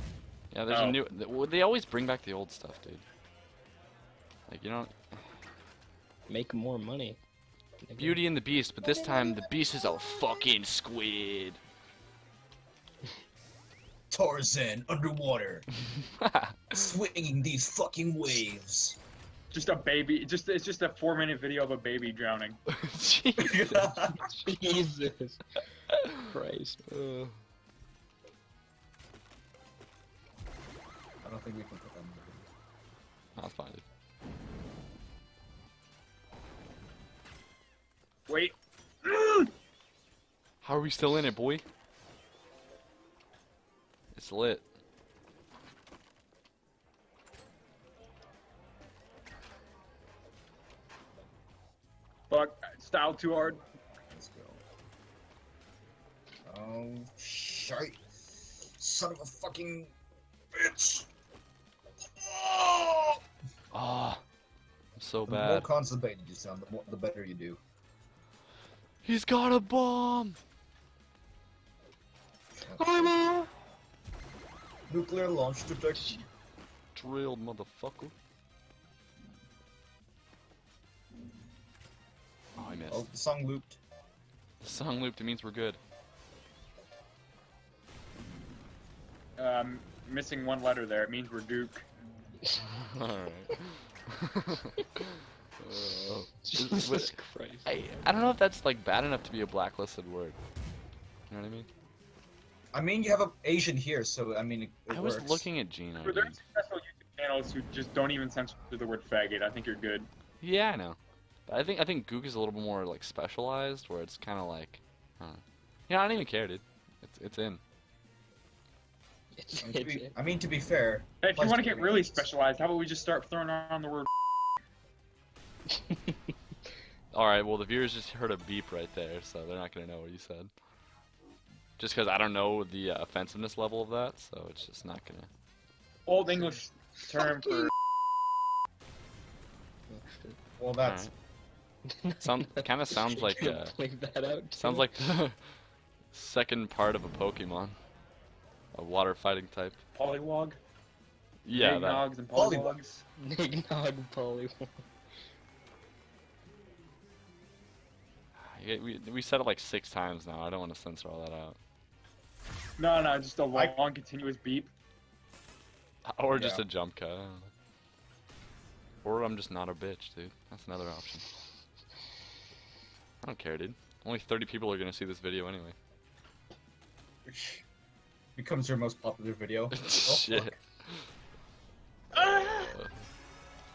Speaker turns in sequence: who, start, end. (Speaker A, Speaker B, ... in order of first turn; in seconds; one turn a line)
Speaker A: 0.5-3.0
Speaker B: 0.7-1.0
Speaker A: 4.5-5.3
Speaker C: 6.3-7.2
Speaker C: 7.8-8.2
Speaker A: 8.0-11.6
Speaker C: 8.8-9.5
Speaker D: 14.1-15.7
Speaker A: 16.2-16.7
Speaker D: 16.7-19.0
Speaker B: 19.5-22.6
Speaker A: 22.7-24.2
Speaker D: 23.4-24.2
Speaker C: 24.2-25.4
Speaker C: 26.1-26.8
Speaker A: 26.9-27.4
Speaker D: 31.2-32.5
Speaker A: 33.4-33.9
Speaker B: 38.3-39.5
Speaker A: 40.6-41.6
Speaker A: 44.1-44.7
Speaker B: 52.3-53.6
Speaker D: 54.1-54.6
Speaker D: 56.5-58.0
Speaker D: 58.8-59.9
Speaker D: 60.5-61.1
Speaker D: 62.2-63.2
Speaker A: 63.7-64.2
Speaker A: 65.0-65.7
Speaker D: 65.2-67.6
Speaker A: 69.0-70.4
Speaker D: 72.6-73.2
Speaker C: 72.8-73.5
Speaker D: 74.9-76.2
Speaker A: 76.9-78.1
Speaker A: 82.6-83.1
Speaker D: 82.9-83.8
Speaker A: 84.6-85.8
Speaker B: 89.4-91.9
Speaker A: 92.8-94.7
Speaker A: 95.6-100.4
Speaker C: 96.4-97.7
Speaker A: 101.3-101.7
Speaker D: 102.7-105.5
Speaker A: 104.9-106.4
Speaker B: 106.0-110.1
Speaker A: 110.4-117.6
Speaker C: 119.3-120.1
Speaker D: 119.6-122.3
Speaker B: 121.2-124.1
Speaker C: 125.7-126.2
Speaker A: 127.1-130.5
Speaker A: 131.8-135.3
Speaker B: 136.1-137.7
Speaker C: 139.9-140.4
Speaker D: 140.6-141.1
Speaker A: 140.8-141.1
Speaker C: 141.8-145.2
Speaker A: 142.2-143.8
Speaker A: 144.5-145.5
Speaker A: 146.1-147.8
Speaker A: 148.7-149.8
Speaker B: 149.9-150.6
Speaker A: 151.4-152.1
Speaker B: 151.5-153.0
Speaker D: 152.3-152.8
Speaker C: 153.2-154.8
Speaker A: 158.4-161.6
Speaker B: 162.8-164.7
Speaker A: 166.0-167.5
Speaker D: 166.3-166.6
Speaker A: 169.0-171.2
Speaker A: 173.2-175.8
Speaker D: 177.2-177.6
Speaker D: 178.4-180.6
Speaker A: 179.7-181.1
Speaker B: 182.1-182.8
Speaker A: 182.1-183.0